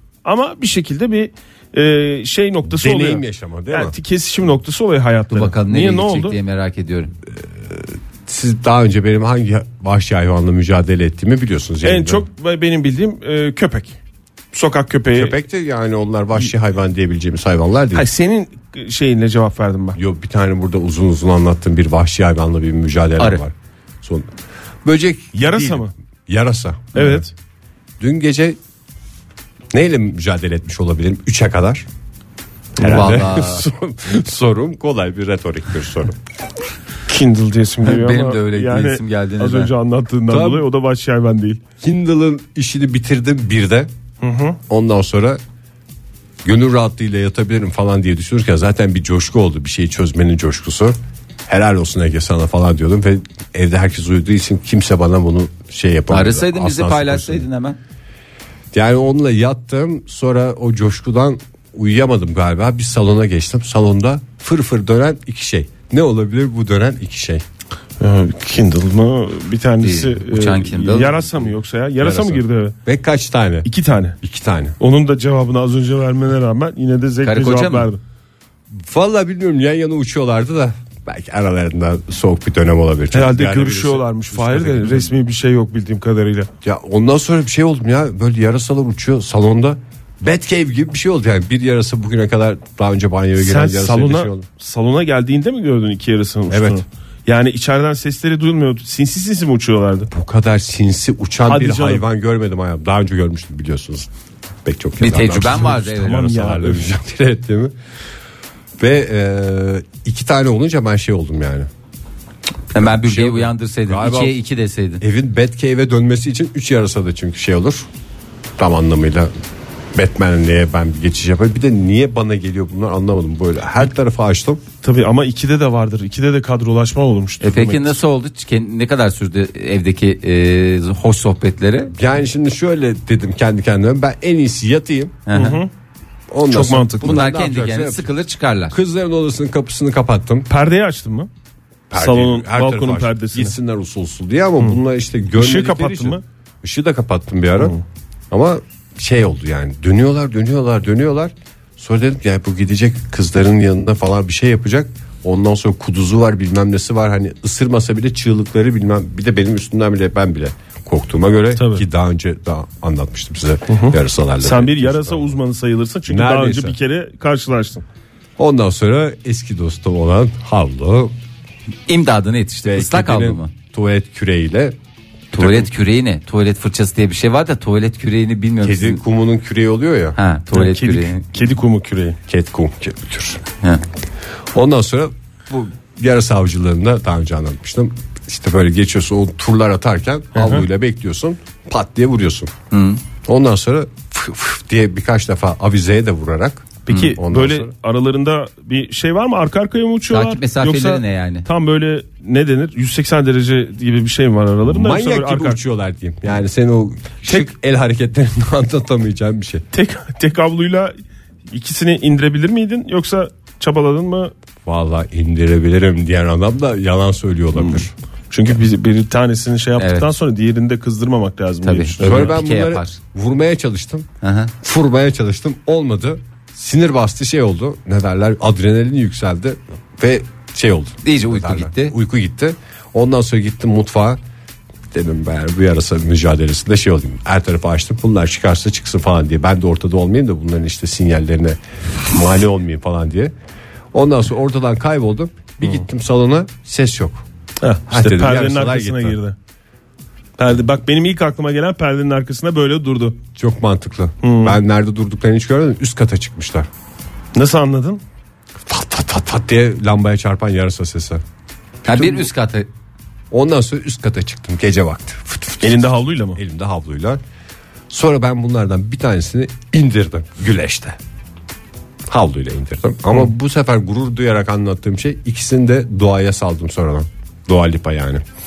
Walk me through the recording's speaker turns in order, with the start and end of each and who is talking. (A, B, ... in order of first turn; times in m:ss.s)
0:00.2-0:06.4 A
0:02.7-0:03.9 B
0:05.3-0:07.1 C
0:07.4-0:12.2 B
0:11.8-0:14.0 A
0:14.5-0:15.3 A
0:15.1-0:18.1 B
0:17.9-0:20.0 A
0:19.9-0:24.3 B
0:24.8-0:27.2 B
0:25.3-0:25.9 A
0:26.9-0:27.3 A
0:28.0-0:28.6 B
0:29.7-0:31.8 B
0:32.8-0:33.2 A
0:32.8-0:36.2 B
0:32.8-0:33.6 C
0:37.1-0:41.6 A
0:37.8-0:39.7 C
0:40.3-0:40.6 B
0:41.8-0:43.9 B
0:44.2-0:44.6 A
0:44.7-0:45.4 B
0:46.4-0:57.4 B
0:56.1-0:57.8 C
0:58.7-1:07.4 B
1:08.0-1:12.8 A
1:09.8-1:11.2 C
1:12.0-1:13.7 B
1:13.6-1:14.2 A
1:14.2-1:14.8 B
1:14.8-1:18.0 A
1:17.2-1:17.9 C
1:18.7-1:25.1 B
1:23.1-1:26.5 A
1:26.6-1:34.4 B
1:33.4-1:40.1 A
1:36.5-1:36.8 B
1:40.1-1:44.1 B
1:41.5-1:42.0 A
1:44.6-1:47.7 B
1:45.0-1:46.2 C
1:45.4-1:46.9 A
1:48.8-1:51.7 B
1:52.7-1:55.0 C
1:52.7-1:54.4 B
1:55.0-1:57.9 B
1:58.6-1:59.3 B
1:59.9-2:04.6 B
2:04.8-2:08.0 A
2:07.4-2:11.9 C
2:11.9-2:15.2 B
2:15.3-2:15.6 C
2:15.3-2:15.7 A
2:16.3-2:18.1 B
2:16.5-2:17.2 A
2:17.0-2:18.7 C
2:18.7-2:20.5 B
2:20.5-2:21.3 A
2:21.9-2:27.7 B
2:22.0-2:23.5 A
2:25.3-2:26.2 A
2:28.3-2:45.4 B
2:41.6-2:41.8 A
2:43.7-2:47.8 A
2:46.1-2:46.8 B
2:48.4-2:51.1 B
2:51.9-2:53.5 C
2:52.6-2:54.8 B
2:55.3-2:59.0 C
2:58.6-3:00.2 B
3:00.2-3:01.2 C
3:00.5-3:02.2 A
3:02.3-3:03.4 B
3:04.5-3:12.5 B
3:10.3-3:10.6 A
3:12.7-3:13.0 C
3:13.2-3:17.7 B
3:16.9-3:25.6 A
3:16.9-3:17.2 C
3:20.1-3:21.4 C
3:24.6-3:29.6 B
3:29.7-3:30.9 A
3:31.5-3:34.3 A
3:34.6-3:37.9 B
3:37.6-3:42.3 A
3:39.8-3:40.0 C
3:41.6-3:43.0 C
3:42.0-3:44.1 B
3:44.2-3:44.5 C
3:44.6-3:54.2 B
3:51.0-3:51.9 C
3:54.9-4:01.6 B
4:02.1-4:03.3 B
4:03.9-4:07.2 B
4:07.6-4:09.3 A
4:07.9-4:09.2 B
4:10.4-4:13.2 A
4:13.4-4:16.7 B
4:14.2-4:14.6 A
4:17.3-4:18.0 A
4:18.6-4:21.2 B
4:21.8-4:22.7 C
4:21.8-4:22.3 B
4:23.3-4:27.2 B
4:25.6-4:26.4 A
4:27.9-4:31.0 B
4:32.1-4:38.2 B